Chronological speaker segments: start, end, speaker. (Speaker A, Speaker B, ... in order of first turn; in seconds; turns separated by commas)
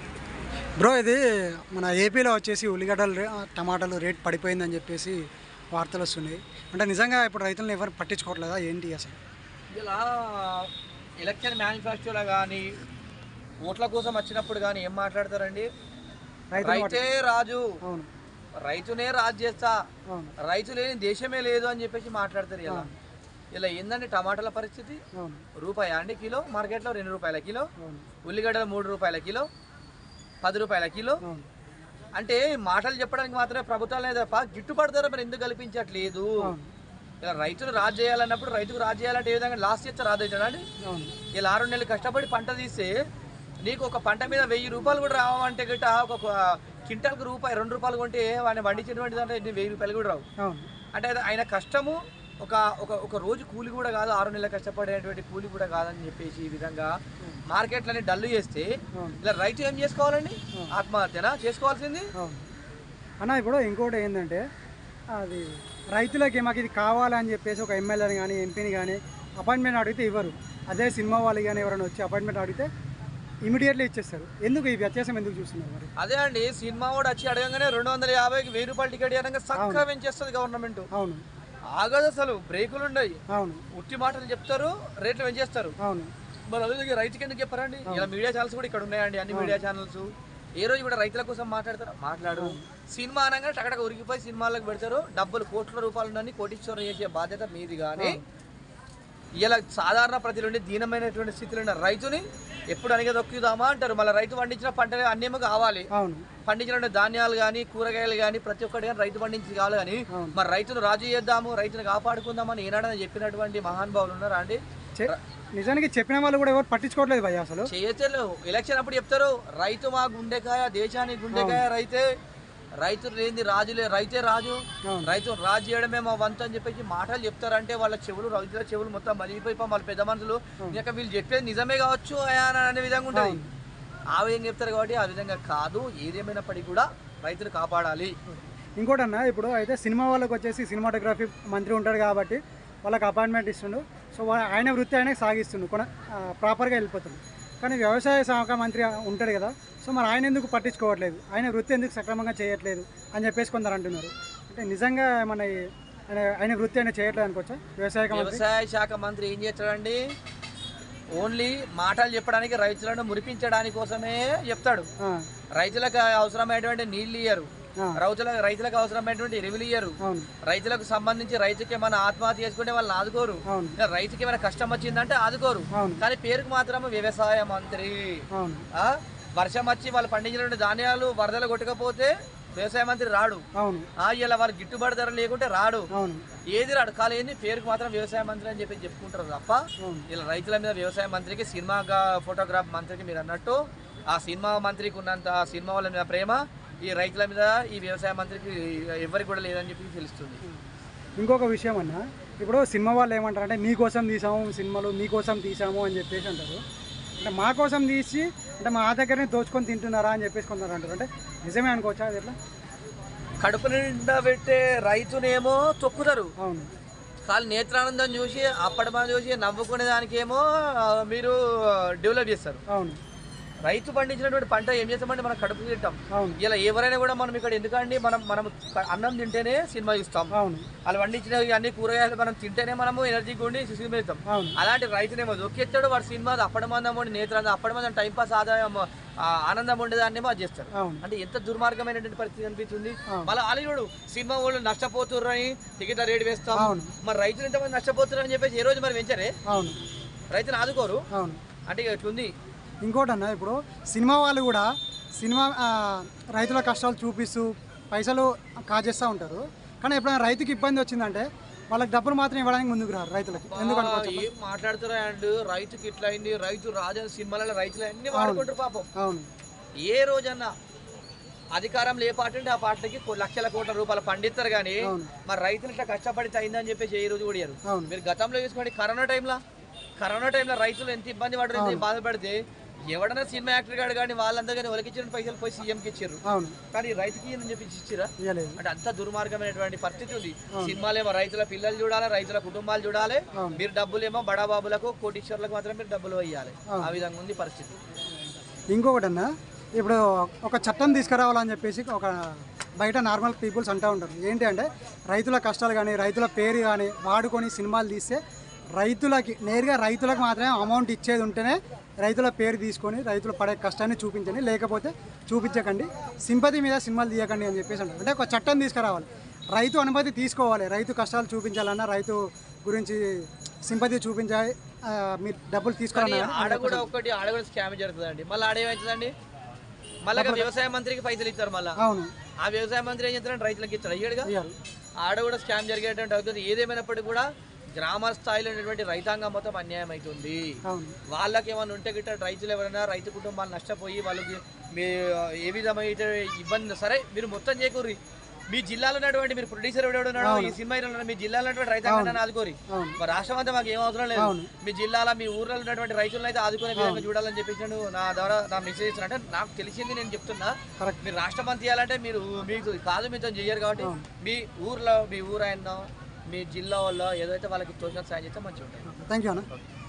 Speaker A: 0.8-5.2, Speaker A: 5.7-9.2, Speaker B: 9.7-12.8, Speaker B: 13.6-15.7, Speaker A: 16.5-17.1, Speaker B: 16.6-17.7, Speaker B: 18.6-19.8, Speaker A: 20.1-20.3, Speaker B: 20.4-22.9, Speaker A: 22.7-22.9, Speaker B: 23.5-25.0, Speaker A: 25.1-25.4, Speaker B: 25.6-27.7, Speaker A: 27.8-28.0, Speaker B: 28.2-29.4, Speaker B: 30.4-31.2, Speaker B: 32.2-36.4, Speaker A: 36.4-36.7, Speaker B: 37.2-40.6, Speaker A: 40.8-41.1, Speaker B: 41.3-42.9, Speaker B: 43.6-50.2, Speaker A: 50.4-50.7, Speaker B: 50.9-56.9, Speaker B: 57.5-58.7, Speaker B: 59.2-62.1, Speaker A: 62.2-62.5, Speaker A: 63.2-64.4, Speaker A: 65.1-72.7, Speaker A: 73.4-75.9, Speaker B: 76.0-80.9, Speaker A: 79.5-79.8, Speaker A: 80.9-81.2, Speaker B: 81.7-83.2, Speaker A: 83.3-83.6, Speaker B: 83.7-85.7, Speaker A: 85.8-86.1, Speaker B: 86.5-98.2, Speaker A: 89.3-89.6, Speaker A: 92.3-92.6, Speaker A: 98.0-98.2, Speaker B: 99.4-105.9, Speaker A: 105.9-106.2, Speaker B: 106.4-115.2, Speaker A: 110.1-110.4, Speaker A: 115.0-117.7, Speaker B: 117.7-122.0, Speaker A: 121.3-121.7, Speaker B: 122.8-133.4, Speaker A: 124.9-125.2, Speaker A: 133.1-133.5, Speaker B: 134.1-138.1, Speaker A: 138.3-155.6, Speaker A: 156.1-158.4, Speaker B: 158.1-160.0, Speaker B: 161.1-164.9, Speaker B: 165.5-183.4, Speaker A: 170.0-170.3, Speaker A: 173.5-173.8, Speaker A: 175.7-176.0, Speaker A: 178.3-178.6, Speaker A: 183.6-183.9, Speaker B: 184.0-185.9, Speaker A: 185.9-186.2, Speaker B: 186.5-200.4, Speaker A: 201.2-206.6, Speaker A: 207.2-212.3, Speaker B: 213.4-216.3, Speaker A: 216.4-216.7, Speaker B: 217.2-222.6, Speaker A: 222.7-223.0, Speaker B: 223.6-230.3, Speaker A: 230.3-230.7, Speaker B: 230.8-249.3, Speaker A: 234.3-234.6, Speaker A: 240.7-241.0, Speaker A: 246.5-246.9, Speaker A: 249.5-249.8, Speaker B: 250.3-251.0, Speaker A: 251.1-251.4, Speaker B: 251.7-252.3, Speaker A: 252.8-264.3, Speaker B: 263.4-268.9, Speaker A: 268.1-269.3, Speaker B: 269.8-270.5, Speaker B: 271.5-279.4, Speaker A: 274.8-275.1, Speaker B: 280.0-286.2, Speaker A: 281.5-281.9, Speaker A: 286.2-286.6, Speaker B: 286.7-297.8, Speaker A: 288.2-288.6, Speaker A: 298.7-308.2, Speaker A: 308.7-323.1, Speaker A: 323.6-326.9, Speaker B: 325.9-329.1, Speaker B: 330.0-331.8, Speaker A: 330.1-330.5, Speaker A: 331.8-332.1, Speaker B: 332.4-334.3, Speaker A: 334.2-334.5, Speaker B: 335.0-340.5, Speaker A: 340.7-340.9, Speaker B: 341.1-347.9, Speaker B: 348.5-368.9, Speaker A: 350.2-350.6, Speaker A: 351.8-353.0, Speaker A: 354.1-354.5, Speaker A: 356.8-357.1, Speaker A: 368.9-369.5